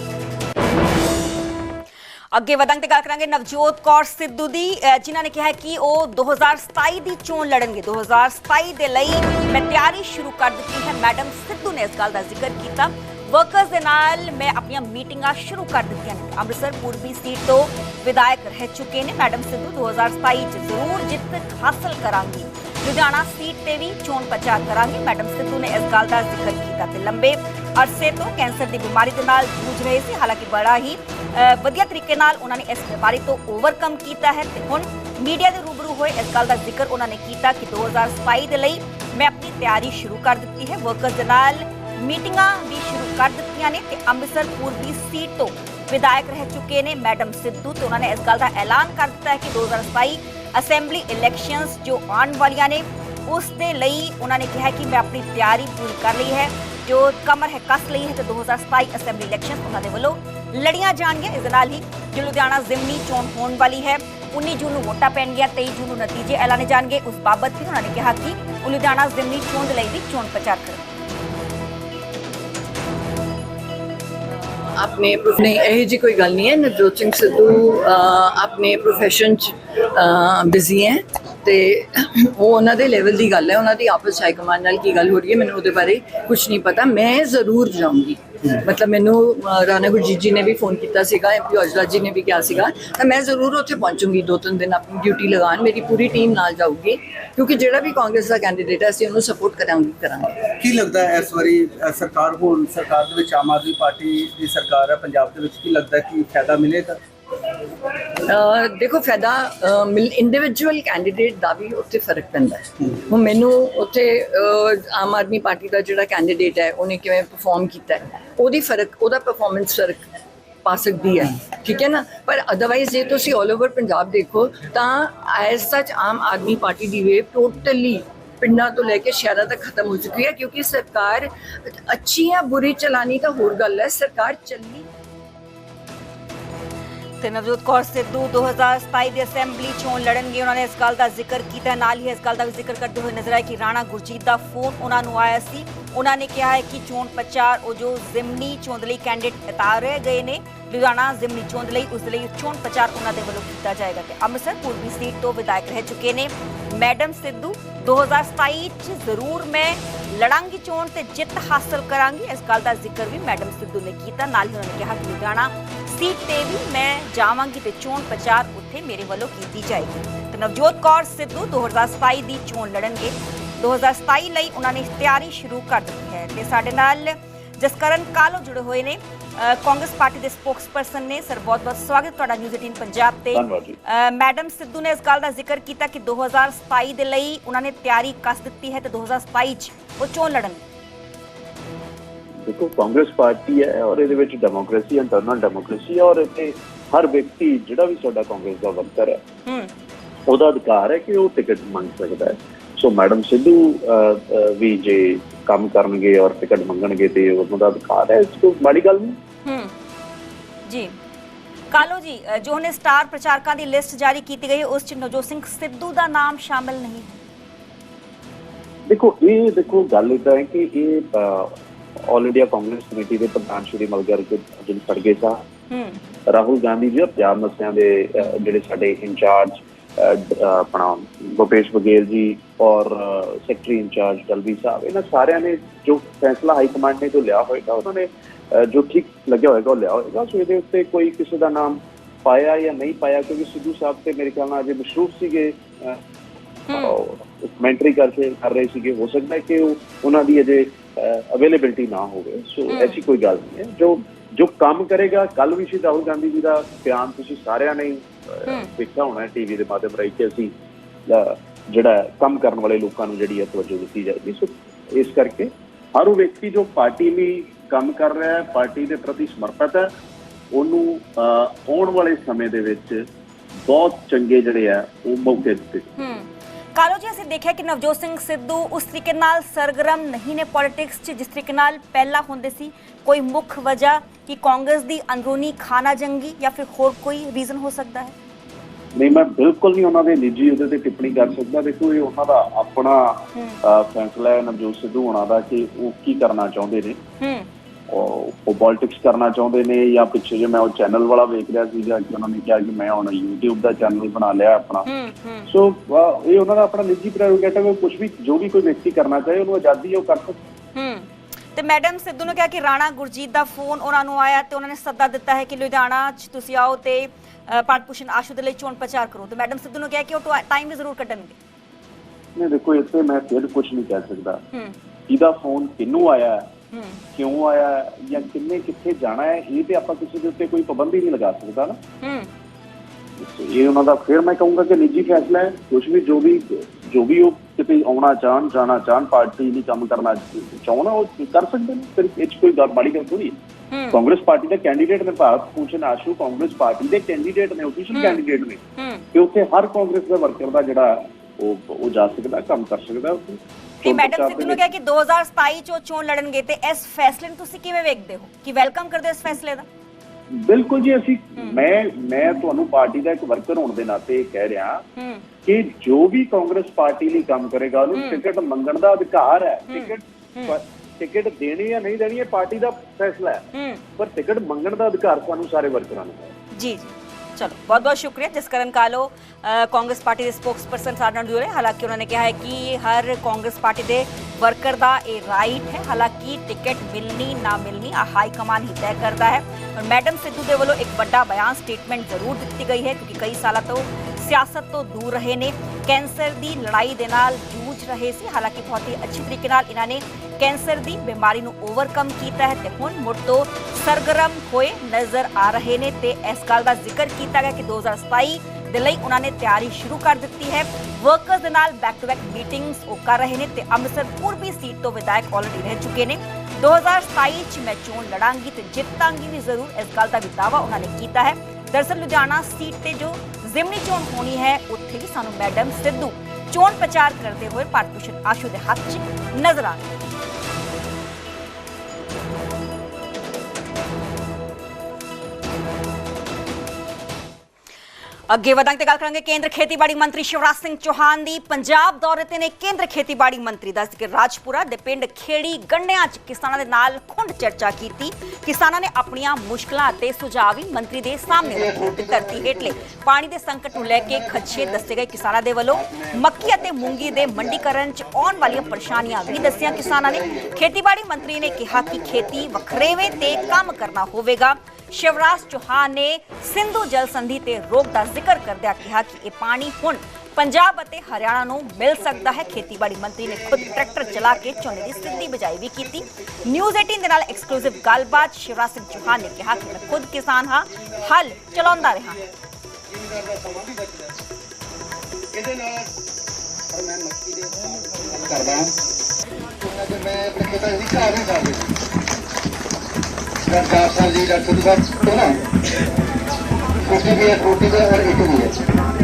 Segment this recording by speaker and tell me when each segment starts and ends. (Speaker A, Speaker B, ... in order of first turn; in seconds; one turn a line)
Speaker A: 2.3-70.9
Speaker B: 74.6-100.5
Speaker C: 100.6-107.0
Speaker B: 108.3-120.1
Speaker B: 120.6-134.9
Speaker A: 137.2-190.6
Speaker D: 183.3-183.8
Speaker D: 192.4-199.2
Speaker A: 199.4-199.7
Speaker D: 200.3-209.2
Speaker A: 209.4-209.7
Speaker A: 210.7-210.9
Speaker A: 211.7-217.2
Speaker D: 218.9-221.5
Speaker D: 222.1-225.4
Speaker A: 225.7-226.0
Speaker D: 226.3-246.0
Speaker A: 246.7-246.9
Speaker D: 246.7-260.5
Speaker A: 252.7-253.0
Speaker D: 261.1-269.9
Speaker D: 270.5-272.9
Speaker D: 273.7-275.9
Speaker A: 276.0-288.1
Speaker D: 289.0-297.0
Speaker A: 297.2-297.5
Speaker D: 297.9-304.9
Speaker A: 304.9-305.5
Speaker D: 305.5-310.4
Speaker A: 310.7-321.4
Speaker D: 322.4-324.4
Speaker D: 325.1-326.4
Speaker A: 326.7-327.0
Speaker D: 327.1-331.8
Speaker A: 332.0-332.3
Speaker D: 333.2-343.4
Speaker A: 343.7-344.0
Speaker D: 343.9-348.6
Speaker A: 347.9-348.2
Speaker A: 348.8-349.0
Speaker D: 349.1-354.6
Speaker A: 353.8-359.6
Speaker D: 360.4-364.8
Speaker A: 365.0-365.2
Speaker D: 365.4-373.4
Speaker A: 367.9-368.2
Speaker A: 369.7-370.5
Speaker A: 373.5-373.8
Speaker D: 374.0-376.3
Speaker A: 376.5-429.9
Speaker A: 438.3-482.2
Speaker E: 490.4-491.1
Speaker E: 493.5-495.2
Speaker E: 496.9-498.5